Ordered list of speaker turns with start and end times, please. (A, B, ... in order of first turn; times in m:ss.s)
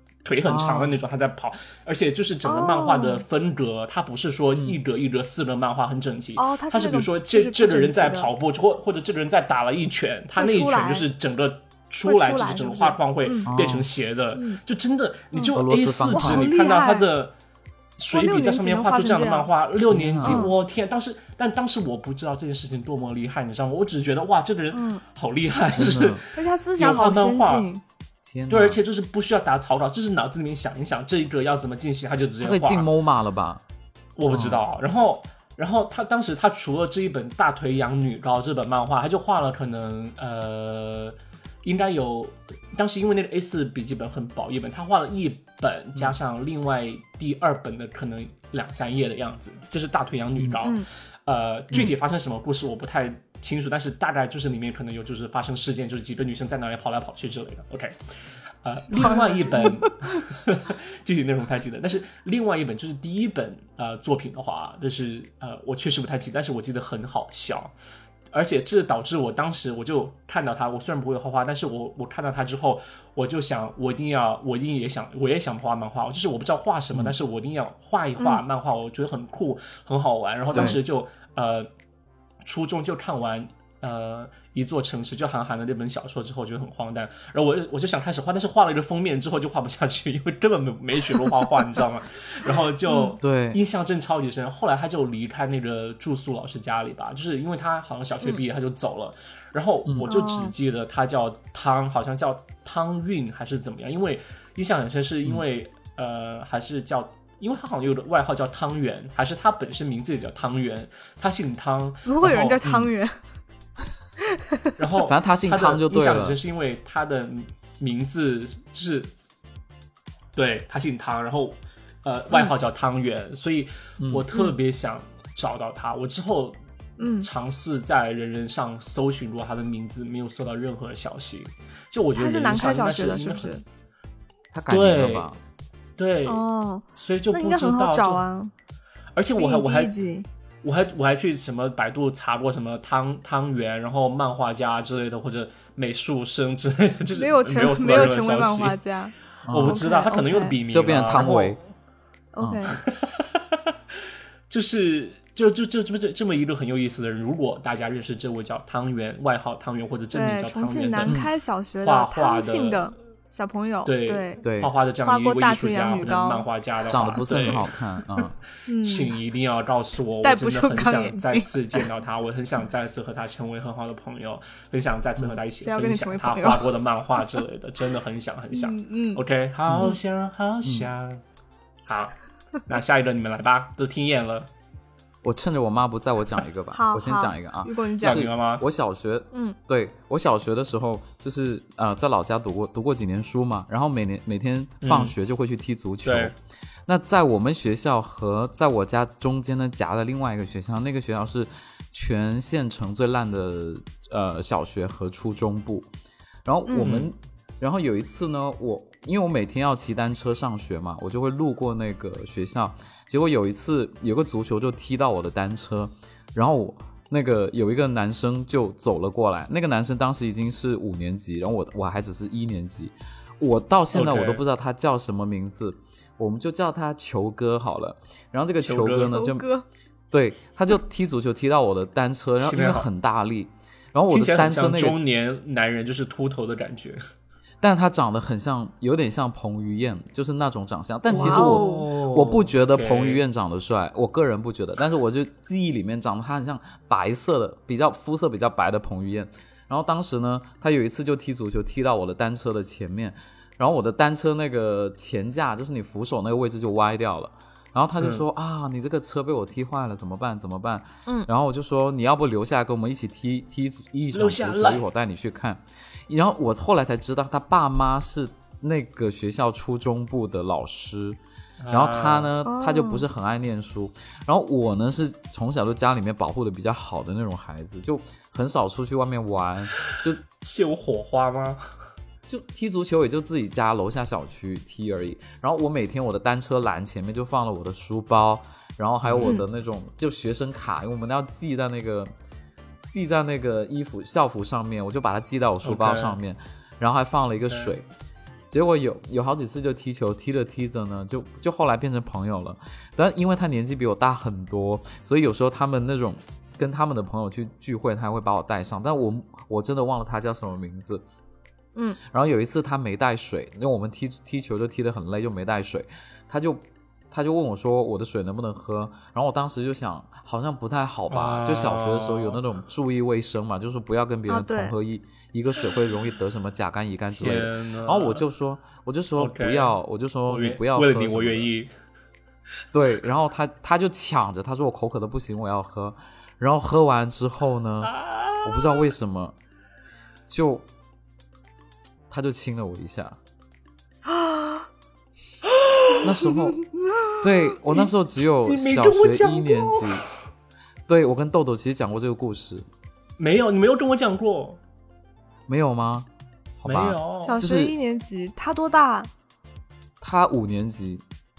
0:00.2-0:17.3 A
0:00.5-0:01.0 B
0:02.4-0:03.2 C
0:06.4-0:08.3 C
0:10.4-0:11.1 C
0:12.0-0:13.5 C
0:13.5-0:13.9 B
0:14.3-0:14.6 C
0:15.5-0:16.5 B
0:16.1-0:17.1 C
0:18.0-0:27.7 A
0:18.1-0:19.5 C
0:19.9-0:20.5 B
0:20.2-0:20.5 C
0:24.7-0:25.0 C
0:25.8-0:26.2 B
0:26.3-0:27.8 C
0:28.2-0:28.8 B
0:28.5-0:32.9 A
0:32.4-0:33.6 B
0:34.2-0:58.0 A
0:34.3-0:34.6 B
0:50.6-0:50.9 C
0:58.6-1:07.7 A
0:58.9-1:00.2 C
1:08.3-1:21.7 A
1:20.5-1:20.8 B
1:22.4-1:52.6 A
1:32.9-1:33.2 C
1:33.2-1:33.6 B
1:40.0-1:40.5 C
1:52.0-1:53.2 C
1:52.6-1:52.9 B
1:54.3-1:54.7 C
1:54.8-1:59.1 A
1:55.0-1:56.4 B
2:00.4-2:06.6 A
2:04.0-2:04.2 B
2:07.0-2:07.3 C
2:07.2-2:13.6 A
2:12.1-2:13.6 C
2:14.5-2:15.4 B
2:14.7-2:15.3 A
2:16.0-2:16.4 A
2:16.2-2:18.5 C
2:17.0-2:18.2 A
2:19.1-2:19.9 A
2:19.4-2:20.3 C
2:20.6-2:28.8 A
2:27.1-2:30.6 C
2:29.5-2:29.8 B
2:29.5-2:31.6 A
2:30.7-2:31.6 B
2:32.3-2:32.8 C
2:32.4-2:32.7 B
2:32.7-2:33.3 A
2:34.5-2:41.2 A
2:40.1-2:44.4 C
2:41.8-2:42.9 A
2:43.8-2:48.3 A
2:44.4-2:44.8 B
2:45.0-2:46.4 C
2:46.9-2:48.4 B
2:48.6-2:49.1 C
2:48.8-3:01.2 A
2:50.2-2:51.9 C
2:55.6-2:56.7 C
2:58.5-2:59.2 C
2:59.7-3:00.0 B
3:00.6-3:00.9 B
3:01.9-3:02.1 A
3:02.6-3:04.5 A
3:05.2-3:25.9 B
3:06.7-3:08.2 C
3:08.0-3:08.6 A
3:14.8-3:15.1 A
3:16.0-3:16.3 A
3:26.4-3:49.4 B
3:26.7-3:27.0 C
3:26.8-3:27.1 A
3:43.9-3:44.4 A
3:48.6-3:49.1 A
3:49.0-3:49.6 C
3:50.1-3:55.0 B
3:52.4-3:52.9 A
3:54.1-3:57.0 A
3:57.6-4:31.2 B
4:01.1-4:01.9 C
4:01.1-4:03.2 A
4:18.0-4:18.2 A
4:24.1-4:24.9 A
4:31.6-4:32.3 A
4:31.7-4:40.2 B
4:32.4-4:33.0 C
4:40.4-4:41.6 A
4:42.3-4:52.1 B
4:49.0-4:49.4 A
4:52.8-4:57.9 B
4:55.6-4:56.2 A
4:57.5-4:57.7 A
4:58.5-5:11.0 B
5:12.0-5:31.5 B
5:21.1-5:22.4 A
5:24.3-5:24.8 C
5:27.1-5:28.2 A
5:29.2-5:29.8 A
5:30.3-5:31.7 A
5:32.7-5:39.4 B
5:37.8-5:38.7 A
5:40.3-5:40.6 B
5:42.1-5:43.2 B
5:44.1-5:44.6 C
5:45.6-5:46.0 A
5:46.0-5:46.6 B
5:47.2-5:50.0 B
5:48.4-5:50.0 A
5:50.9-5:52.6 B
5:53.2-5:54.6 A
5:55.5-5:56.1 B
5:56.6-5:57.7 B
5:56.6-5:57.4 A
5:57.2-5:59.1 C
6:00.0-6:01.0 B